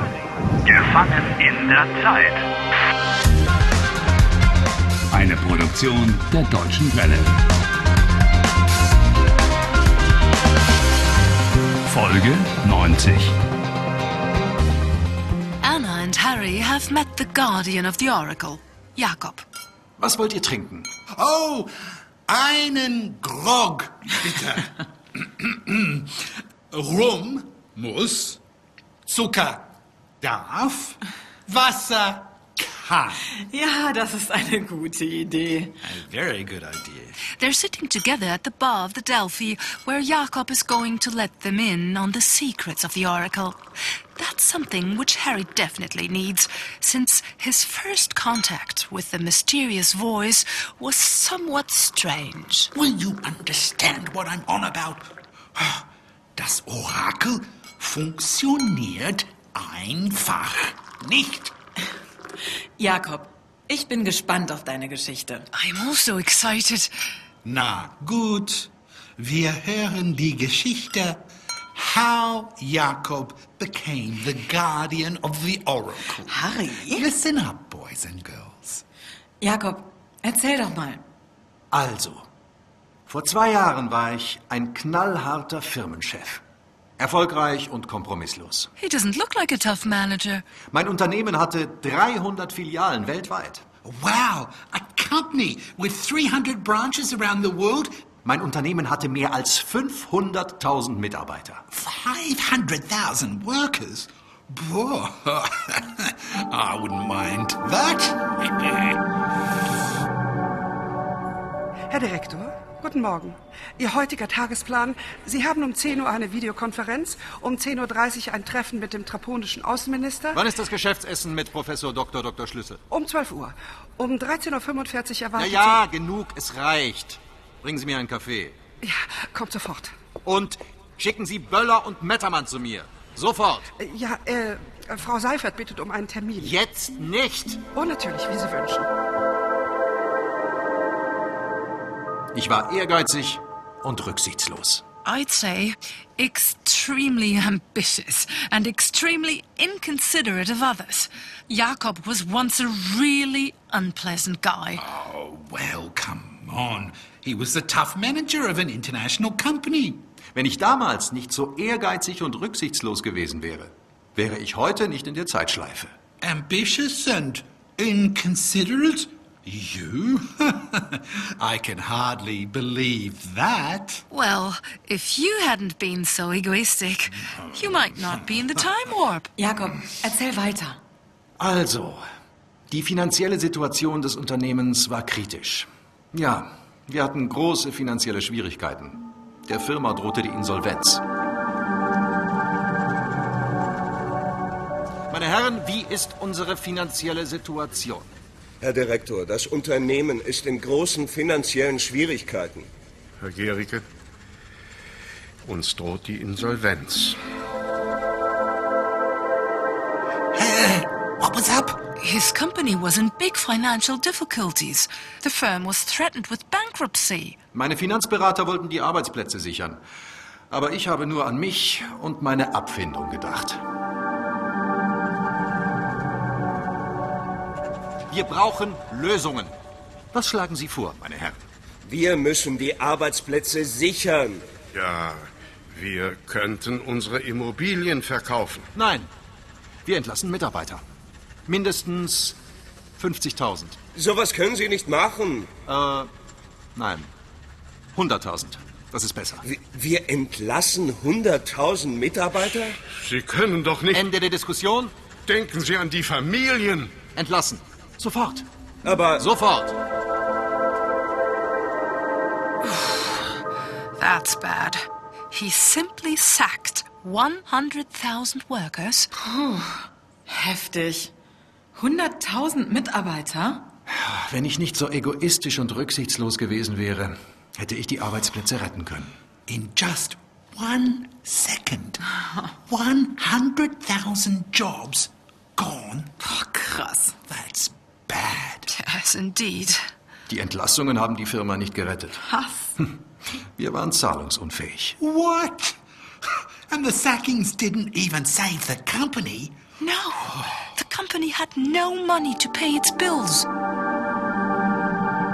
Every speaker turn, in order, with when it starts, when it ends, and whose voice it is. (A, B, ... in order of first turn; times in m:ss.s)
0:00.8-0:02.3 A
0:05.2-0:07.3 B
0:11.9-0:13.3 B
0:15.6-0:19.4 C
0:20.0-0:20.9 D
0:21.2-0:21.7 A
0:22.3-0:28.4 A
0:29.1-0:29.7 A
0:30.2-0:33.2 A
0:33.4-0:35.8 E
0:35.8-0:37.2 A
0:37.4-0:43.6 C
0:44.2-0:52.7 C
0:52.8-1:01.5 A
1:02.8-1:05.5 E
1:05.5-1:06.9 C
1:07.4-1:11.2 A
1:11.8-1:18.8 A
1:16.2-1:17.0 E
1:19.4-1:21.0 E
1:21.7-1:22.2 D
1:23.1-1:26.4 D
1:27.0-1:28.7 D
1:28.8-1:30.4 C
1:30.7-1:33.6 D
1:33.8-1:37.9 A
1:38.2-1:41.6 D
1:41.7-1:49.0 A
1:51.9-2:00.4 F
2:00.3-2:02.8 D
2:02.9-2:05.8 F
2:05.4-2:08.6 D
2:08.8-2:09.9 F
2:10.2-2:13.7 D
2:13.8-2:16.5 F
2:16.4-2:17.6 D
2:17.8-2:18.9 F
2:22.3-2:24.8 D
2:25.0-2:34.9 C
2:34.8-2:40.0 A
2:40.4-2:45.9 D
2:46.2-2:54.0 A
2:54.1-2:59.3 C
2:59.4-3:00.8 E
3:01.4-3:02.0 D
3:02.7-3:11.0 D
3:15.1-3:18.1 D
3:18.6-3:22.7 G
3:23.2-3:23.8 H
3:25.4-3:27.2 H
3:30.3-3:31.8 A
3:32.0-3:37.4 C
3:37.5-3:39.8 D
3:40.5-3:43.6 D
3:48.1-3:49.6 D
3:50.1-3:51.4 D
3:51.8-3:54.5 G
3:54.7-3:58.7 H
3:58.8-3:59.1 D
3:59.8-4:00.8 D
4:01.5-4:02.4 D
4:03.0-4:03.8 D
4:04.0-4:05.5 G
4:05.7-4:06.1 D
4:06.8-4:07.1 D
4:08.0-4:09.4 D
4:09.4-4:12.8 G
4:12.9-4:14.0 H
4:13.9-4:14.9 D
4:15.3-4:17.0 H
4:17.1-4:18.5 D
4:18.8-4:19.2 G
4:19.2-4:19.8 D
4:24.0-4:29.1 C
4:29.3-4:31.1 E
4:31.8-4:33.7 E
4:33.9-4:39.1 D
4:39.5-4:42.0 A
4:42.7-4:46.1 A
4:46.2-4:47.2 E
4:47.3-4:48.7 A
4:48.7-4:49.8 C
4:50.3-4:52.2 D
4:52.2-4:52.8 E
4:53.6-4:55.0 D
4:55.0-4:59.6 A
4:59.8-5:03.5 C